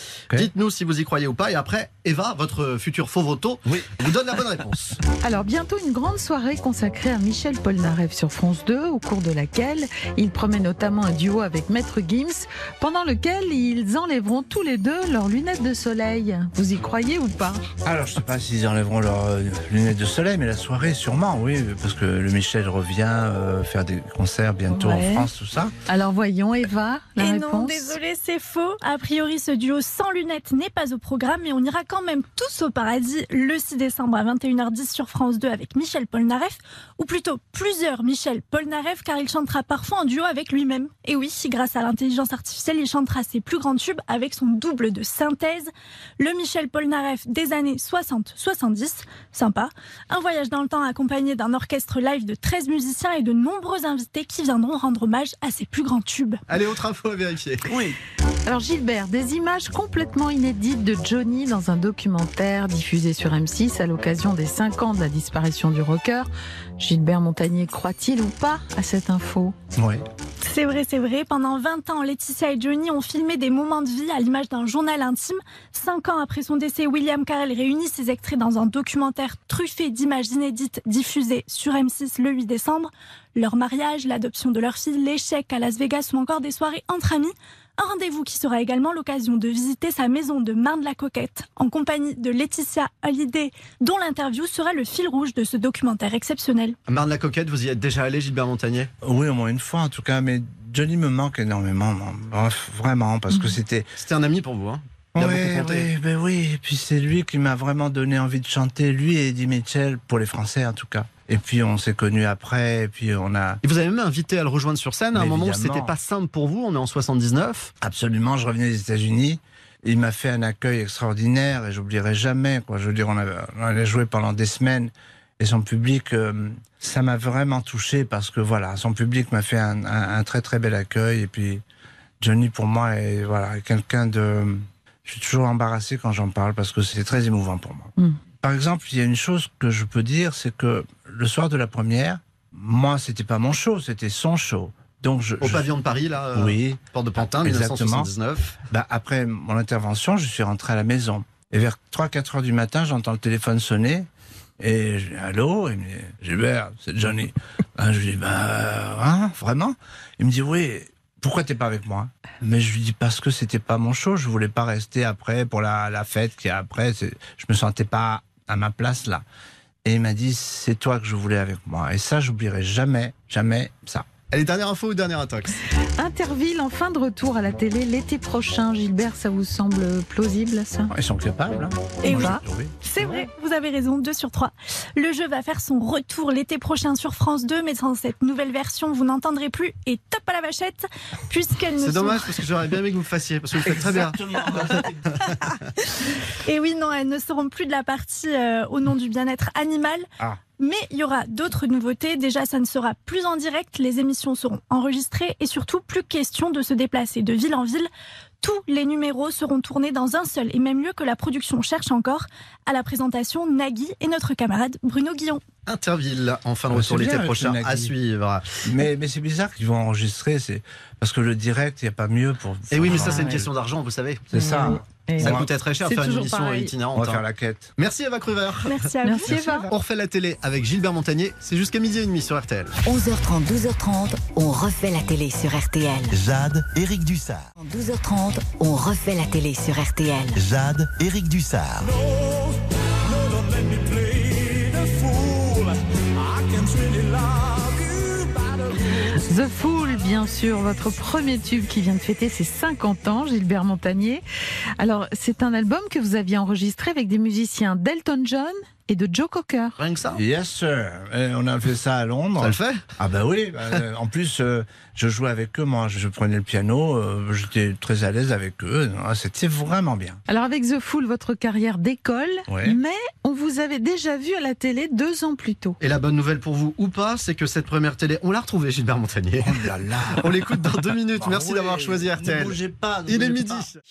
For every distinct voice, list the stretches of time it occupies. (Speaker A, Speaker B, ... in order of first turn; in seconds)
Speaker A: 0.3-5.0, 56.5-57.7, 96.9-98.9, 104.0-105.9, 113.6-117.7, 145.4-148.6, 174.3-175.5, 191.8-195.6, 215.7-218.6, 222.7-227.2, 227.8-228.8, 229.7-232.7, 259.8-260.2, 262.4-262.8, 275.8-279.6, 280.2-283.8
Speaker B: 5.2-17.7, 24.7-25.3, 25.9-28.0, 58.5-69.5, 103.3-103.5, 176.0-180.9, 182.1-182.4, 222.9-223.4, 224.3-226.7, 229.0-229.7, 249.1-254.2, 254.8-259.8, 270.3-275.8
Speaker C: 17.8-25.7, 57.6-58.0, 69.7-70.0, 99.0-103.9, 105.1-113.6, 115.1-115.9, 117.8-131.6, 132.2-145.7, 146.3-146.8, 147.4-148.1, 148.7-154.1, 154.6-169.2, 169.8-174.1, 180.9-182.8, 193.6-195.2, 216.7-217.9, 218.6-223.5, 224.3-225.5, 226.9-227.7, 229.3-229.6, 260.1-270.2, 272.5-272.8, 279.4-280.3, 281.1-283.7
Speaker D: 27.2-56.4, 70.4-96.8, 182.0-192.4, 196.4-200.1, 200.6-207.9, 208.4-215.4, 228.7-229.7
Speaker E: 232.8-236.1, 237.6-240.4
Speaker F: 236.1-237.5, 240.3-242.0